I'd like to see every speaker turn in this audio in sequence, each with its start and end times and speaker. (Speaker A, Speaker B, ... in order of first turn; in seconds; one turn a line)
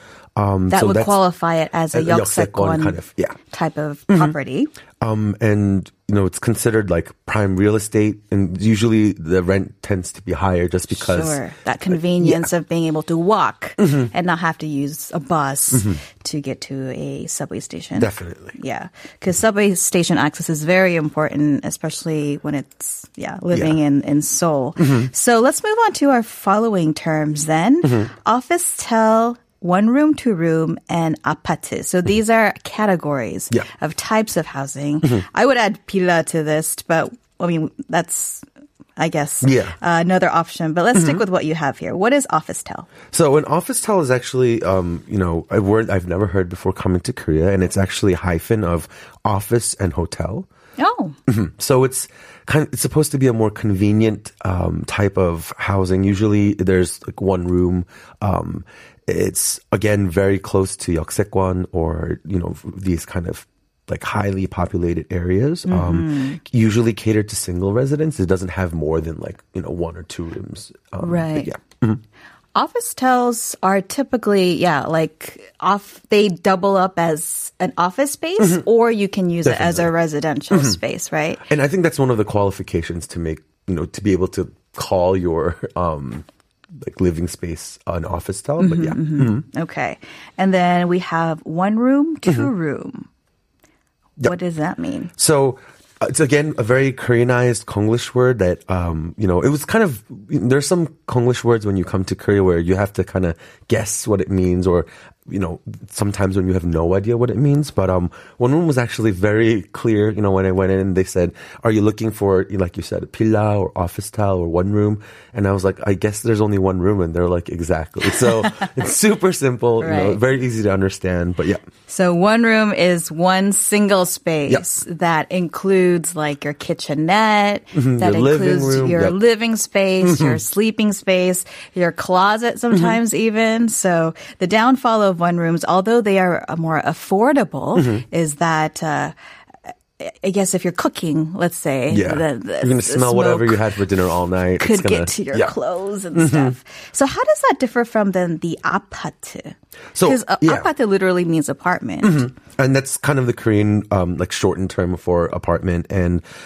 Speaker A: 0.4-1.2
Speaker B: 0.7-4.7
Speaker A: 1.9-3.4
Speaker A: 4.1-4.3
Speaker A: 5.0-11.4
Speaker B: 10.9-38.5
Speaker A: 12.2-12.5
Speaker A: 18.0-18.6
Speaker A: 23.5-23.8
Speaker B: 39.0-42.9
Speaker A: 39.4-39.8
Speaker A: 43.1-50.5
Speaker B: 50.8-51.2
Speaker A: 51.3-72.0
Speaker B: 65.7-66.4
Speaker B: 71.0-71.5
Speaker B: 72.5-81.4
Speaker A: 79.5-79.9
Speaker A: 80.5-80.8
Speaker A: 81.5-89.4
Speaker B: 88.6-93.1
Speaker B: 94.2-95.1
Speaker A: 95.2-121.6
Speaker B: 118.4-118.7
Speaker B: 119.8-120.2
Speaker B: 121.9-139.1
Speaker A: 127.7-129.2
Speaker A: 130.0-130.4
Speaker A: 137.8-138.0
Speaker B: 139.7-143.7
Speaker A: 141.9-145.6
Speaker B: 144.6-152.3
Speaker A: 146.1-146.6
Speaker A: 149.9-150.7
Speaker A: 152.0-156.2